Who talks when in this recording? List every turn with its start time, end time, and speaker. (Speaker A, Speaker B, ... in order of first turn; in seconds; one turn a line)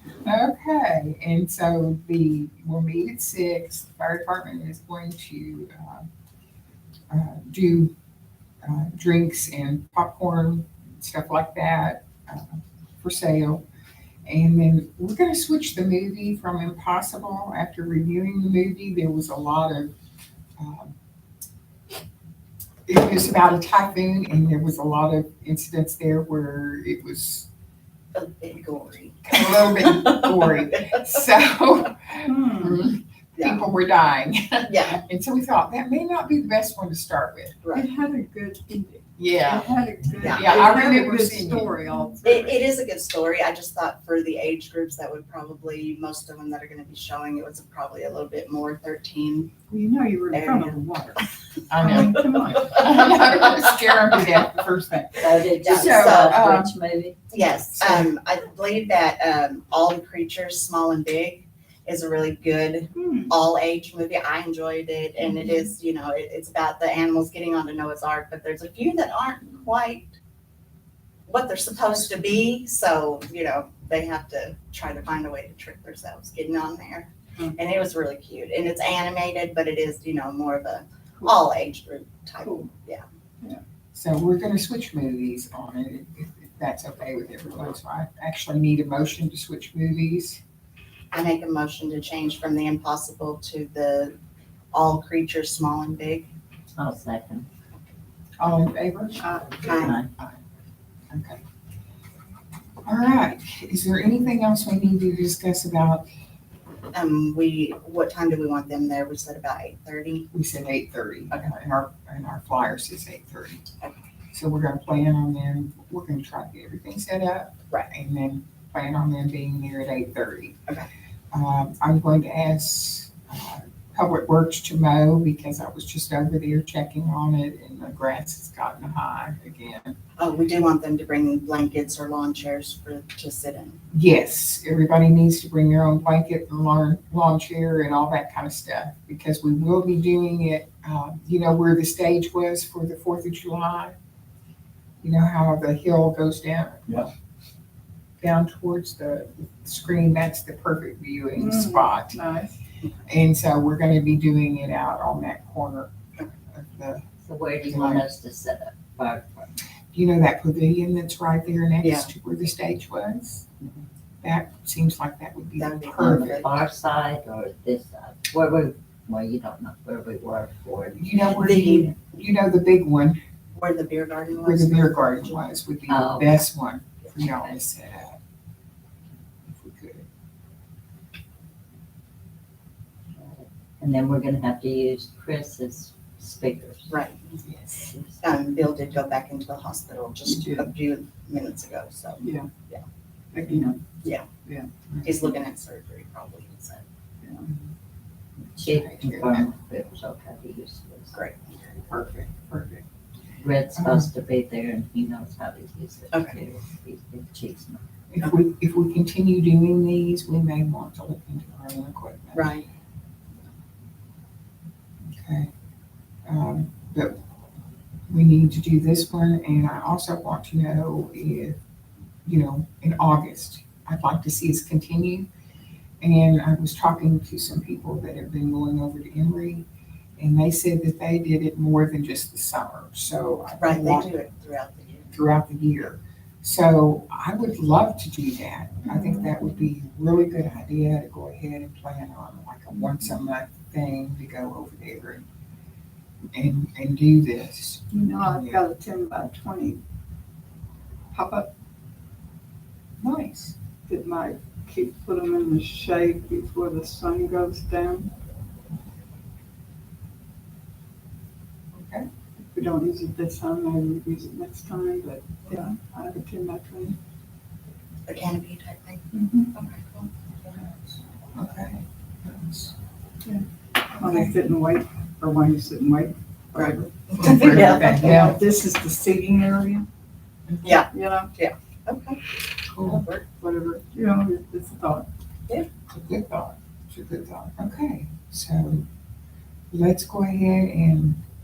Speaker A: 0.2-6.1
Speaker A: 7.1-7.9
Speaker A: 8.6-13.6
Speaker A: 14.2-19.9
Speaker A: 20.6-20.9
Speaker A: 22.9-27.5
Speaker B: 28.1-30.3
Speaker A: 29.2-37.6
Speaker C: 32.2-32.8
Speaker B: 33.4-33.6
Speaker B: 34.6-35.0
Speaker B: 37.6-37.9
Speaker C: 37.7-42.6
Speaker A: 39.2-39.7
Speaker B: 40.2-40.8
Speaker A: 40.2-41.8
Speaker B: 42.2-49.5
Speaker C: 49.7-52.8
Speaker B: 50.3-50.8
Speaker A: 51.7-56.7
Speaker B: 51.9-53.2
Speaker D: 55.2-57.2
Speaker B: 55.5-56.5
Speaker B: 57.3-70.2
Speaker A: 57.8-58.1
Speaker C: 62.9-63.3
Speaker C: 65.2-65.6
Speaker B: 71.3-83.0
Speaker A: 83.9-90.4
Speaker B: 91.1-94.1
Speaker B: 94.7-96.3
Speaker D: 96.7-97.5
Speaker A: 98.4-99.3
Speaker C: 99.2-99.9
Speaker B: 99.6-99.9
Speaker D: 99.7-100.1
Speaker A: 99.9-100.4
Speaker A: 101.1-101.4
Speaker A: 102.8-106.1
Speaker B: 106.9-110.3
Speaker A: 110.3-113.7
Speaker A: 114.3-120.6
Speaker A: 121.3-129.9
Speaker B: 130.2-133.8
Speaker A: 133.9-143.9
Speaker A: 145.0-147.1
Speaker A: 148.2-152.2
Speaker C: 151.3-152.5
Speaker A: 153.1-155.9
Speaker A: 156.5-157.1
Speaker D: 157.2-159.5
Speaker A: 157.6-158.1
Speaker A: 159.9-163.5
Speaker B: 161.8-162.1
Speaker A: 164.2-166.4
Speaker B: 165.6-166.6
Speaker D: 166.0-171.0
Speaker A: 170.9-173.2
Speaker B: 171.3-171.9
Speaker B: 173.5-175.4
Speaker A: 174.4-178.2
Speaker D: 175.9-176.4
Speaker A: 179.4-180.1
Speaker D: 183.2-186.9
Speaker B: 186.9-187.4
Speaker A: 187.4-187.8
Speaker D: 187.9-188.2
Speaker B: 188.2-192.8
Speaker C: 190.3-190.7
Speaker C: 192.2-192.5
Speaker C: 193.3-193.8
Speaker B: 194.0-194.3
Speaker A: 194.9-195.2
Speaker B: 195.0-196.8
Speaker C: 197.2-197.5
Speaker D: 198.5-201.2
Speaker A: 198.6-199.5
Speaker B: 201.1-201.5
Speaker A: 201.5-202.8
Speaker D: 203.4-207.8
Speaker A: 203.8-204.1
Speaker B: 206.1-206.4
Speaker A: 208.1-212.6
Speaker B: 212.3-212.7
Speaker A: 215.1-215.5
Speaker A: 216.2-217.2
Speaker A: 218.1-221.6
Speaker A: 222.2-225.3
Speaker A: 226.0-229.7
Speaker A: 230.2-234.1
Speaker B: 233.6-235.1
Speaker A: 235.1-245.2
Speaker C: 238.9-239.3
Speaker A: 246.3-248.6
Speaker C: 247.9-249.8
Speaker C: 251.1-251.5
Speaker A: 253.0-253.6
Speaker C: 253.9-258.1
Speaker A: 261.7-262.1
Speaker C: 262.4-266.9
Speaker B: 268.1-270.1
Speaker C: 269.1-269.5
Speaker A: 270.5-272.7
Speaker C: 273.9-276.9
Speaker A: 274.0-274.3
Speaker B: 276.6-278.2
Speaker A: 277.2-278.4
Speaker C: 277.8-279.8
Speaker A: 280.5-280.7
Speaker B: 280.6-282.2
Speaker C: 280.9-281.3
Speaker A: 282.7-283.0
Speaker B: 282.8-283.2
Speaker C: 283.4-285.1
Speaker A: 285.9-288.9
Speaker A: 289.7-291.2